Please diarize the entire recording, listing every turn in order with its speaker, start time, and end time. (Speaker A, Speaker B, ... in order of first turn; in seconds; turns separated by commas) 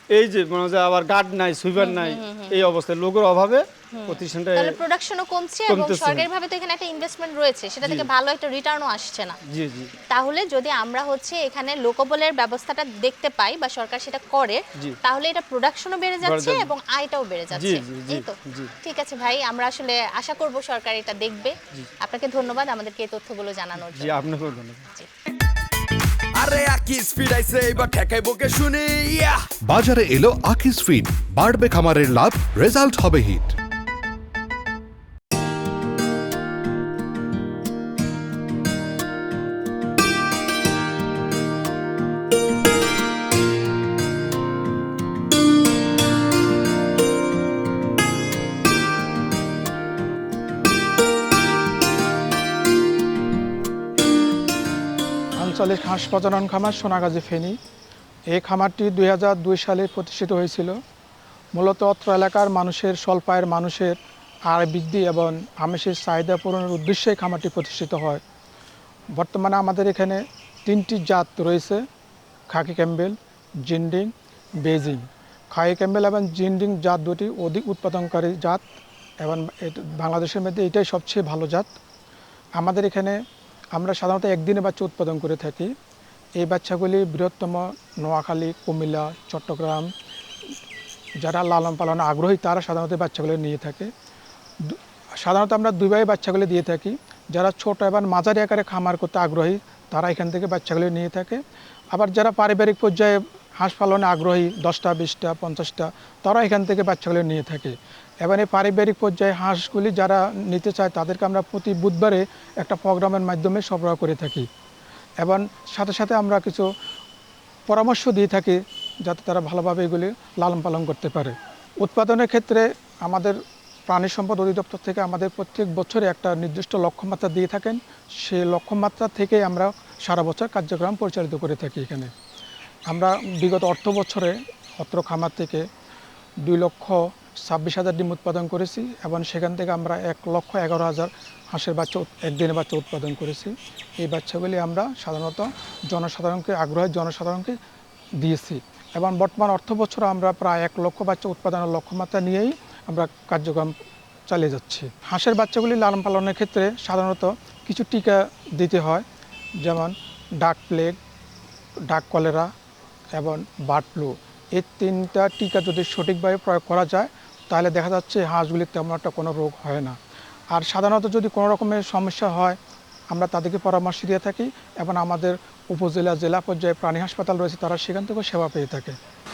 Speaker A: 0.1-4.8, Speaker B: 1.8-2.5, Speaker B: 3.9-9.4, Speaker A: 5.7-6.3, Speaker A: 7.8-8.1, Speaker A: 9.5-9.9, Speaker B: 10.1-24.2, Speaker A: 16.2-16.7, Speaker A: 17.5-18.7, Speaker A: 23.9-24.8, Speaker C: 26.4-29.4, Speaker D: 29.7-33.5, Speaker E: 55.4-57.5, Speaker E: 58.3-60.8, Speaker E: 61.6-64.0, Speaker E: 64.5-68.2, Speaker E: 69.2-71.8, Speaker E: 72.5-73.2, Speaker E: 73.7-74.1, Speaker E: 74.6-78.6, Speaker E: 79.2-81.7, Speaker E: 82.6-83.2, Speaker E: 83.8-85.7, Speaker E: 86.4-89.9, Speaker E: 91.2-93.9, Speaker E: 94.6-101.4, Speaker E: 101.9-114.5, Speaker E: 115.2-116.7, Speaker E: 117.7-132.1, Speaker E: 132.9-135.7, Speaker E: 136.4-147.6, Speaker E: 148.2-153.7, Speaker E: 154.3-159.0, Speaker E: 159.6-161.0, Speaker E: 161.9-162.5, Speaker E: 163.2-169.9, Speaker E: 170.5-172.6, Speaker E: 173.1-179.0